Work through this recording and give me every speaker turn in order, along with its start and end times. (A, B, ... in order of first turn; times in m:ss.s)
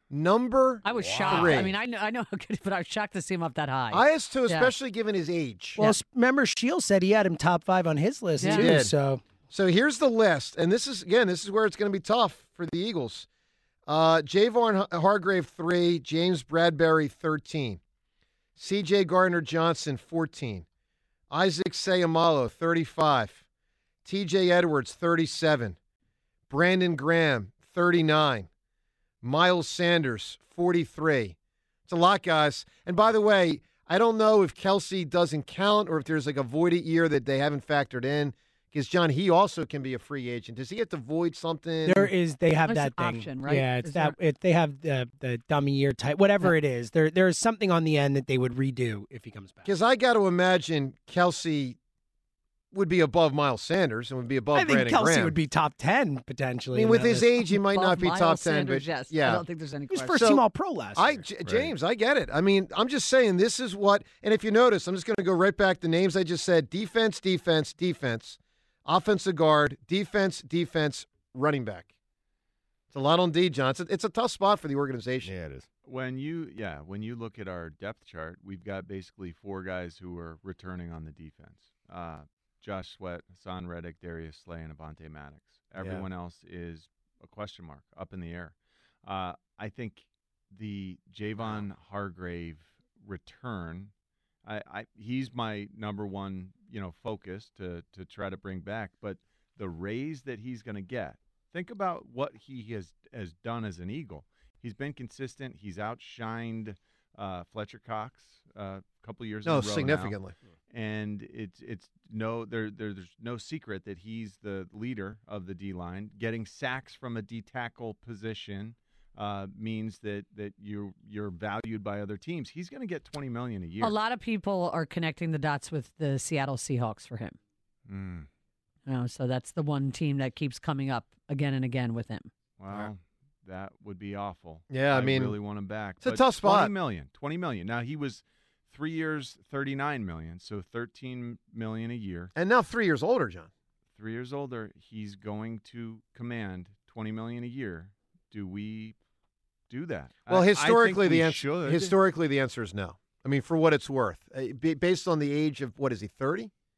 0:00.1-0:01.7 A
0:00.8-0:04.7 B
0:00.9-0:01.6 C
0:03.9-0:05.8 A
0:05.8-0:09.2 D
0:08.4-0:08.8 B
0:08.4-0:08.9 A
0:09.5-0:13.3 A
0:13.9-0:17.8 A
0:18.6-0:20.6 A
0:21.3-0:23.4 A
0:24.0-0:25.8 A
0:26.5-0:28.5 A
0:29.2-0:31.4 A
0:31.9-0:42.1 A
0:41.8-0:49.7 D
0:42.6-0:44.2 B
0:49.6-0:51.8 A
0:52.7-0:55.4 A
0:54.5-0:57.4 D
0:56.7-0:59.4 A
0:57.5-1:00.4 B
0:59.9-1:01.2 D
1:00.1-1:00.4 A
1:01.0-1:11.9 A
1:12.9-1:15.3 A
1:15.2-1:15.6 C
1:15.8-1:33.9 E
1:25.8-1:26.0 A
1:34.4-1:50.2 E
1:49.4-1:50.3 A
1:50.7-2:04.0 E
2:03.8-2:07.4 B
2:07.9-2:08.3 E
2:08.8-2:12.3 B
2:12.6-2:22.3 E
2:14.7-2:15.4 A
2:16.0-2:16.7 A
2:22.3-2:23.5 A
2:24.0-2:28.9 E
2:29.7-2:31.8 E
2:30.3-2:36.5 A
2:30.5-2:31.9 C